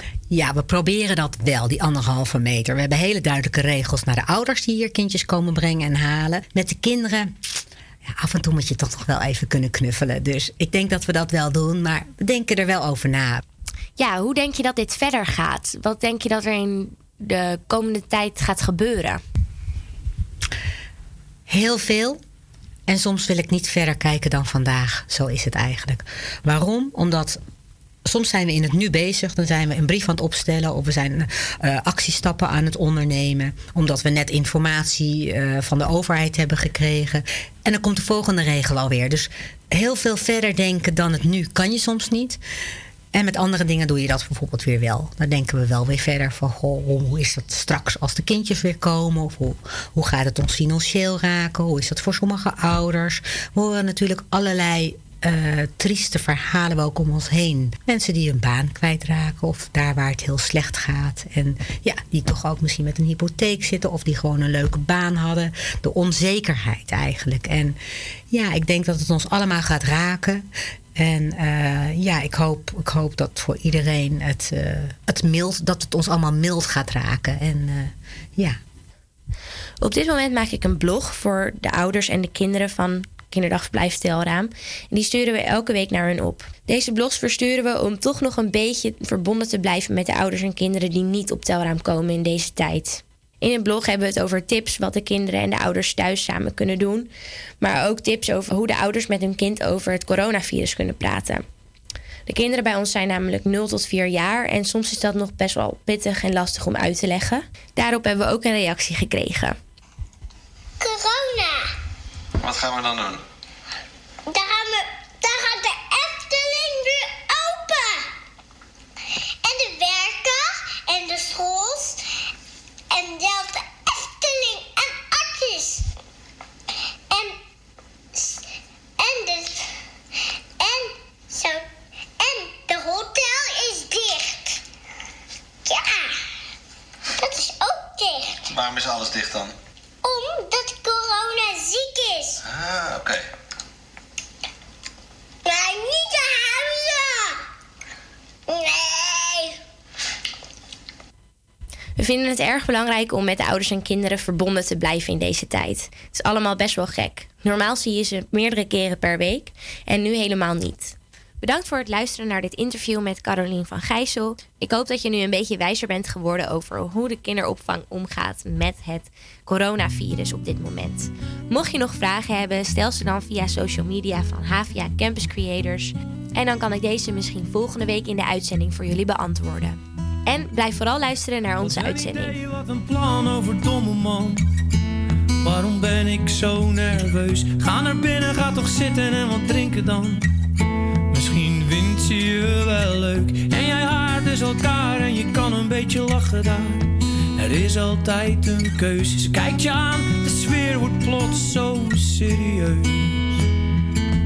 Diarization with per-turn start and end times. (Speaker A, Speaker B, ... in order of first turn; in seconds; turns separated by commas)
Speaker A: 0.3-7.3, Speaker A: 8.1-13.4, Speaker B: 14.0-19.2, Speaker A: 21.5-22.2, Speaker A: 22.9-27.4, Speaker A: 28.0-42.4, Speaker A: 43.1-67.8, Speaker A: 68.3-78.6, Speaker B: 79.8-97.1, Speaker B: 97.6-101.4, Speaker B: 102.3-109.6, Speaker C: 110.8-111.6, Speaker D: 112.4-113.2, Speaker C: 114.3-118.1, Speaker C: 119.4-122.0, Speaker C: 122.9-125.8, Speaker C: 127.1-127.3, Speaker C: 129.0-129.6, Speaker C: 130.6-131.6, Speaker C: 132.2-134.6, Speaker C: 135.7-136.1, Speaker C: 137.2-138.4, Speaker D: 138.5-139.5, Speaker C: 140.0-142.3, Speaker D: 142.5-143.2, Speaker C: 145.4-147.3, Speaker C: 148.5-149.5, Speaker B: 152.0-182.4, Speaker E: 181.6-184.4, Speaker E: 185.4-190.2, Speaker E: 191.1-203.4